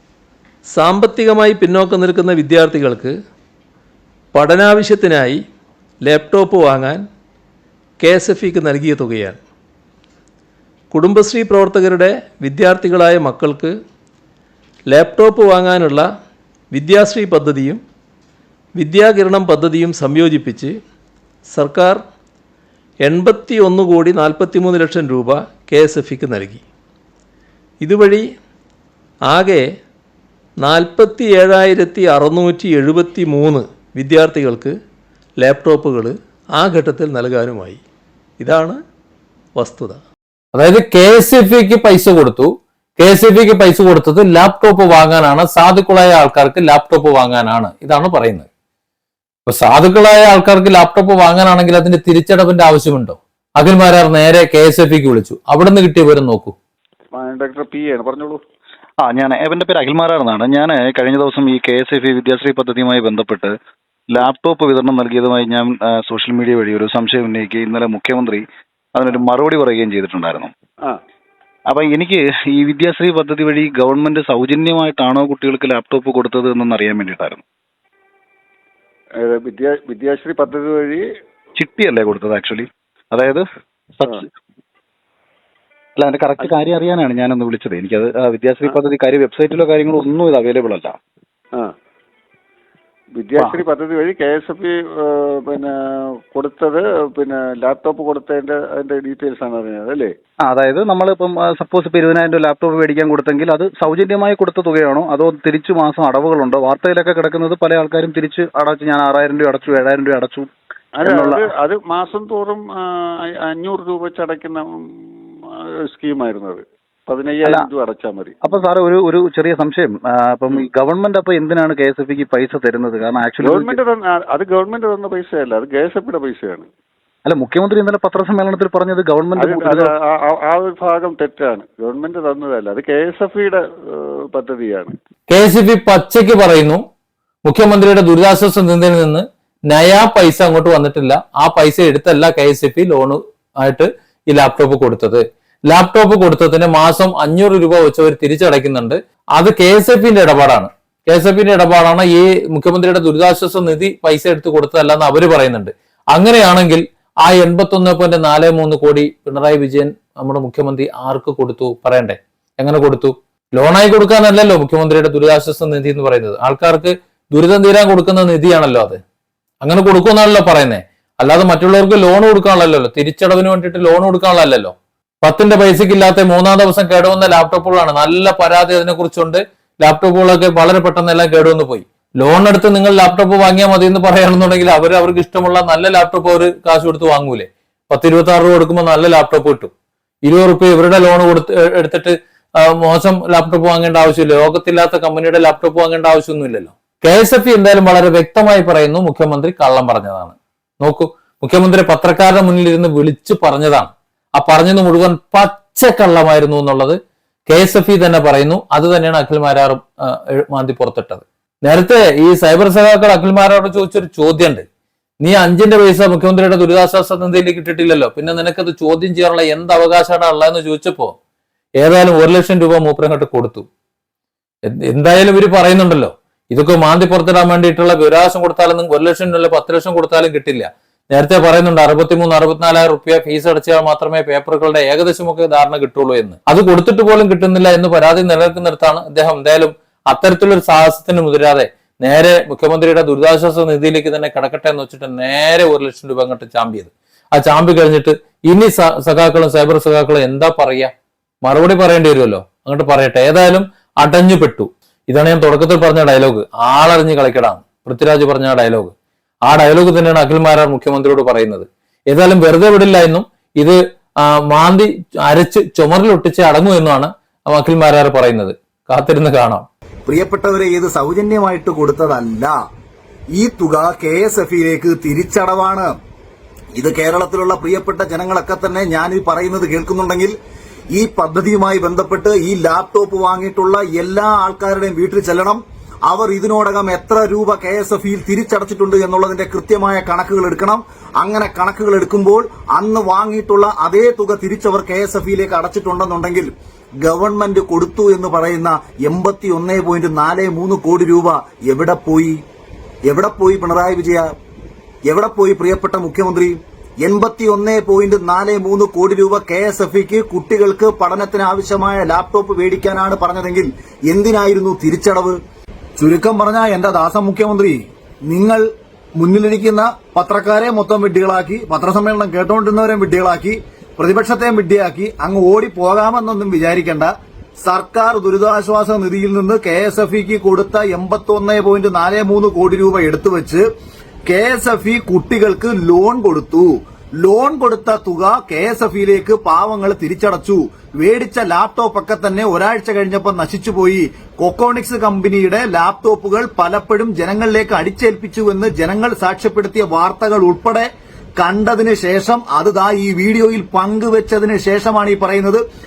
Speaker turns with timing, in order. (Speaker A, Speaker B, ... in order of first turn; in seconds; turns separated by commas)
Speaker A: 0.7-3.1, Speaker A: 4.3-5.4, Speaker A: 6.1-7.0, Speaker A: 8.0-9.4, Speaker A: 10.9-13.7, Speaker A: 14.9-16.0, Speaker A: 16.7-17.8, Speaker A: 18.8-20.7, Speaker A: 21.5-22.0, Speaker A: 23.0-26.6, Speaker A: 27.8-28.2, Speaker A: 29.3-29.6, Speaker A: 30.6-34.7, Speaker A: 35.4-37.8, Speaker A: 38.4-38.8, Speaker A: 39.6-40.0, Speaker B: 40.5-48.5, Speaker B: 49.5-56.5, Speaker C: 57.1-58.4, Speaker D: 59.0-63.6, Speaker D: 64.1-68.4, Speaker D: 68.9-70.5, Speaker D: 71.7-77.4, Speaker C: 79.2-81.0, Speaker D: 81.6-83.4, Speaker D: 86.0-91.0, Speaker C: 93.2-95.8, Speaker D: 93.4-93.6, Speaker C: 96.3-100.1, Speaker D: 100.5-110.5, Speaker C: 111.0-114.7, Speaker D: 111.0-111.5, Speaker C: 115.9-118.3, Speaker D: 118.4-123.8, Speaker C: 123.4-126.7, Speaker D: 127.2-129.9, Speaker C: 129.4-134.9, Speaker B: 135.3-136.8, Speaker B: 137.4-169.0, Speaker B: 169.6-189.7, Speaker B: 190.3-214.7, Speaker B: 215.2-221.2, Speaker B: 221.8-223.7, Speaker B: 224.7-250.9, Speaker B: 251.4-258.9, Speaker B: 259.4-269.7, Speaker E: 270.1-272.6, Speaker E: 273.4-275.9, Speaker E: 276.8-280.3, Speaker E: 280.9-296.5, Speaker E: 297.0-302.4, Speaker E: 303.1-304.3, Speaker E: 305.1-315.4, Speaker E: 316.0-318.6, Speaker E: 319.2-327.1, Speaker E: 327.6-333.6, Speaker E: 334.3-355.6